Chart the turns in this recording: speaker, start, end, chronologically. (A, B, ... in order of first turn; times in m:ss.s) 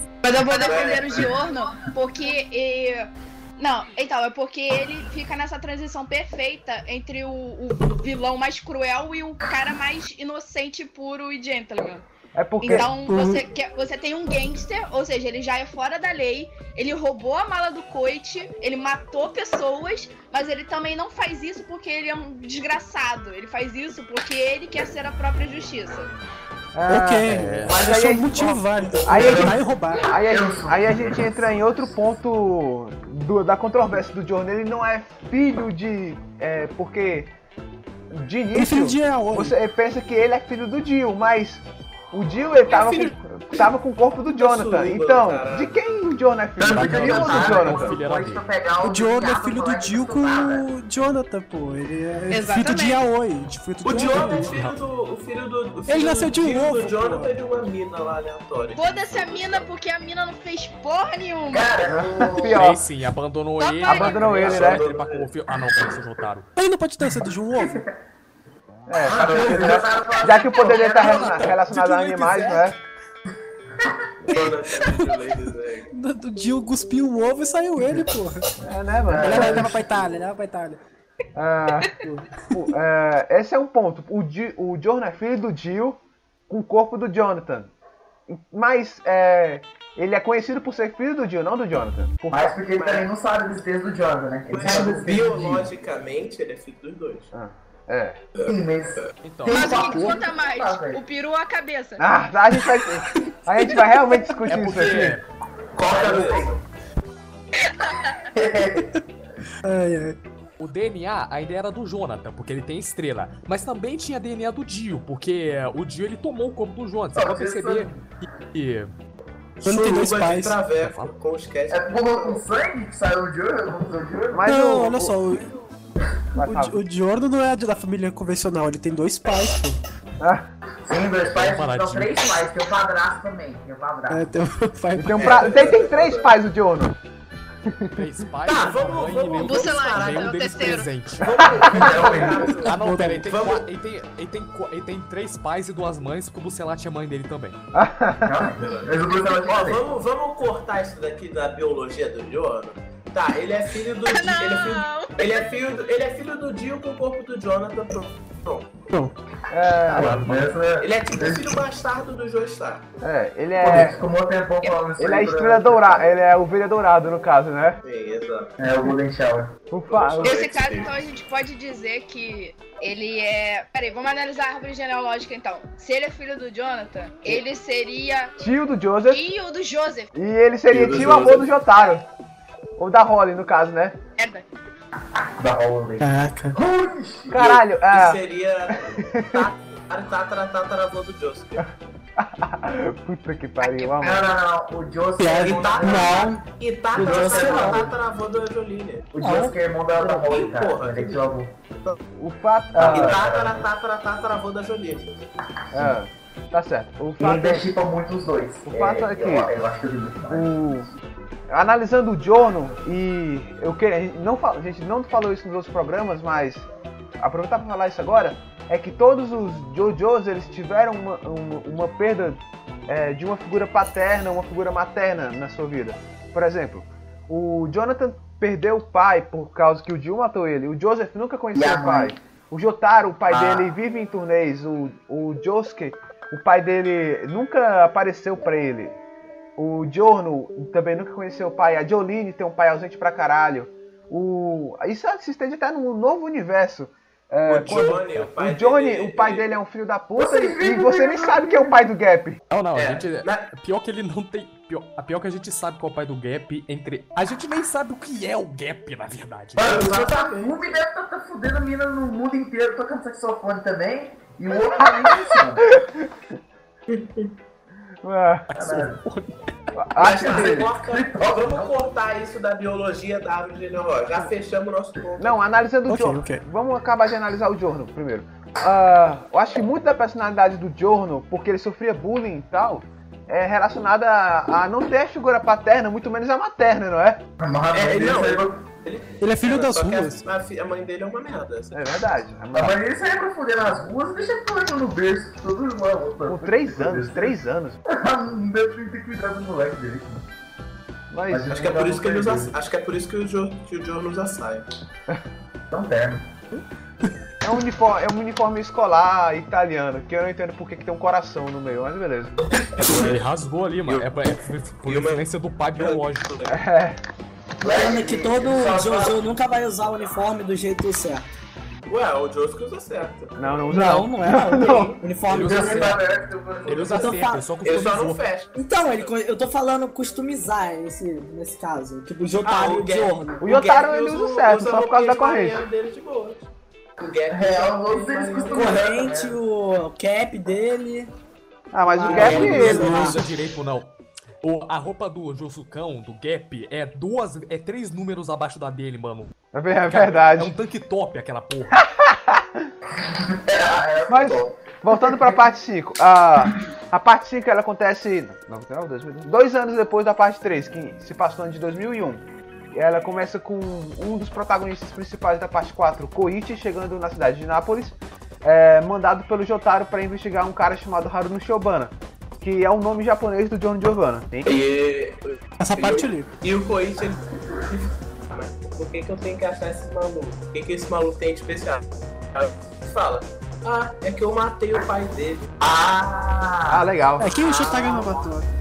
0:00.2-0:12.1 A
0:00.4-0:01.4 B
0:12.3-0:12.9 C
0:12.6-0:26.1 A
0:12.7-0:13.4 D
0:26.7-0:37.3 C
0:26.9-0:30.1 D
0:27.3-0:27.8 E
0:28.9-0:32.0 F
0:38.1-0:47.9 C
0:38.5-0:39.6 D
0:42.7-0:43.1 A
0:44.4-0:45.8 B
0:46.6-0:50.7 F
0:46.7-0:48.4 E
0:48.8-0:54.6 D
0:52.3-0:53.1 A
0:53.8-0:59.7 B
0:54.0-0:54.8 E
0:55.9-0:57.6 D
0:58.8-1:01.7 A
1:01.5-1:02.7 F
1:01.9-1:02.8 C
1:02.4-1:06.5 E
1:03.6-1:04.5 A
1:03.9-1:04.8 C
1:04.3-1:05.3 B
1:06.6-1:07.9 D
1:07.5-1:08.0 F
1:08.9-1:12.8 C
1:09.0-1:11.5 F
1:09.2-1:09.8 B
1:11.4-1:12.6 D
1:11.7-1:12.6 E
1:13.3-1:14.3 F
1:14.3-1:15.9 B
1:15.9-1:18.5 D
1:18.6-1:19.7 C
1:19.1-1:19.8 F
1:19.2-1:20.8 D
1:21.4-1:21.9 C
1:22.5-1:26.0 C
1:26.5-1:27.7 C
1:28.3-1:32.6 C
1:32.3-1:35.7 F
1:32.8-1:33.1 B
1:34.5-1:37.3 B
1:37.3-1:38.2 C
1:38.4-1:39.1 B
1:38.4-1:41.0 F
1:39.2-1:40.1 E
1:39.5-1:42.0 A
1:42.0-1:45.2 C
1:44.5-1:45.2 E
1:45.8-1:46.6 F
1:45.8-1:46.6 B
1:47.7-1:48.2 A
1:48.3-1:48.9 F
1:49.6-1:50.2 D
1:50.6-1:58.0 E
1:57.1-1:58.0 F
1:58.5-1:58.9 E
1:59.6-2:02.4 B
1:59.6-2:00.6 D
2:00.7-2:01.1 E
2:01.7-2:04.5 F
2:04.3-2:05.2 C
2:04.5-2:05.5 D
2:06.4-2:06.8 C
2:06.4-2:09.8 D
2:10.2-2:10.5 C
2:10.9-2:14.3 F
2:11.3-2:12.5 E
2:14.1-2:15.6 D
2:15.0-2:17.0 C
2:15.2-2:16.3 B
2:17.7-2:18.1 C
2:18.0-2:27.6 E
2:18.5-2:23.7 B
2:19.4-2:20.9 A
2:21.7-2:22.6 F
2:22.6-2:23.3 D
2:27.7-2:28.5 C
2:28.3-2:30.0 F
2:28.6-2:38.9 B
2:34.1-2:35.2 A
2:39.5-2:40.2 C
2:39.9-2:41.5 F
2:40.0-2:42.9 B
2:43.0-2:44.0 C
2:43.6-2:46.1 F
2:45.0-2:47.8 C
2:47.8-2:48.5 B
2:48.6-2:49.6 F
2:49.7-2:50.4 C
2:49.9-2:50.9 B
2:50.2-2:58.3 A
2:58.4-2:59.2 C
2:59.1-3:00.1 A
3:00.1-3:02.0 C
3:00.7-3:01.5 B
3:02.8-3:04.0 C
3:04.2-3:04.4 A
3:05.4-3:07.6 F
3:06.0-3:06.6 D
3:07.3-3:11.7 B
3:07.3-3:08.2 C
3:08.9-3:09.4 C
3:12.2-3:14.3 C
3:13.6-3:13.9 A
3:14.0-3:16.3 F
3:15.2-3:16.4 D
3:15.4-3:19.1 B
3:15.9-3:16.4 G
3:17.0-3:17.9 F
3:17.0-3:17.7 G
3:17.3-3:17.8 D
3:19.1-3:21.5 F
3:19.2-3:20.3 G
3:20.2-3:21.2 B
3:22.2-3:23.2 C
3:22.7-3:23.7 F
3:22.9-3:25.3 B
3:25.7-3:27.7 C
3:27.2-3:31.0 F
3:28.7-3:29.5 C
3:30.3-3:30.9 C
3:31.5-3:36.7 C
3:37.2-3:59.0 C
3:51.5-3:52.2 F
3:59.6-4:12.4 C
4:07.5-4:09.5 B
4:10.2-4:11.8 F
4:12.5-4:20.0 E
4:12.8-4:13.5 B
4:19.6-4:25.7 F
4:19.6-4:20.8 B
4:24.8-4:26.1 C
4:26.9-4:27.3 B
4:28.0-4:28.5 C
4:28.5-4:29.3 E
4:28.6-4:29.0 F
4:29.8-4:30.7 C
4:30.0-4:31.9 F
4:30.0-4:35.4 B
4:35.2-4:47.2 C
4:35.9-4:36.4 D
4:47.4-4:48.6 F
4:47.7-4:51.8 B
4:49.2-4:50.2 D
4:51.7-4:52.8 C
4:52.5-5:00.3 F
4:56.3-4:57.8 C
5:01.1-5:01.6 C
5:01.3-5:02.6 F
5:01.5-5:04.7 B
5:05.7-5:06.3 F
5:07.4-5:12.3 C
5:12.5-5:13.2 B
5:12.8-5:16.3 E
5:13.9-5:15.2 B
5:15.8-5:16.6 B
5:16.5-5:17.0 C
5:17.6-5:19.2 F
5:17.6-5:21.3 G
5:21.9-5:23.9 B
5:23.4-5:25.0 C
5:23.7-5:26.0 G
5:24.6-5:25.0 B
5:25.3-5:26.0 E
5:25.3-5:27.2 F
5:26.7-5:28.2 E
5:26.7-5:27.1 B
5:26.9-5:27.5 G
5:27.6-5:29.1 B
5:28.6-5:33.5 G
5:32.4-5:38.9 B
5:33.4-5:35.6 C
5:37.3-5:39.4 F
5:38.5-5:41.1 G
5:41.7-5:43.1 C
5:41.9-5:43.2 G
5:42.1-5:43.0 B
5:42.1-5:49.3 E
5:42.4-5:43.2 D
5:49.5-5:50.5 C
5:49.9-5:51.8 E
5:51.7-5:52.7 C
5:52.9-5:55.4 F
5:54.1-6:02.2 C
6:02.7-6:14.5 C
6:14.5-6:25.5 B
6:15.6-6:16.3 D
6:25.6-6:28.3 F
6:26.7-6:27.4 C
6:27.2-6:28.5 D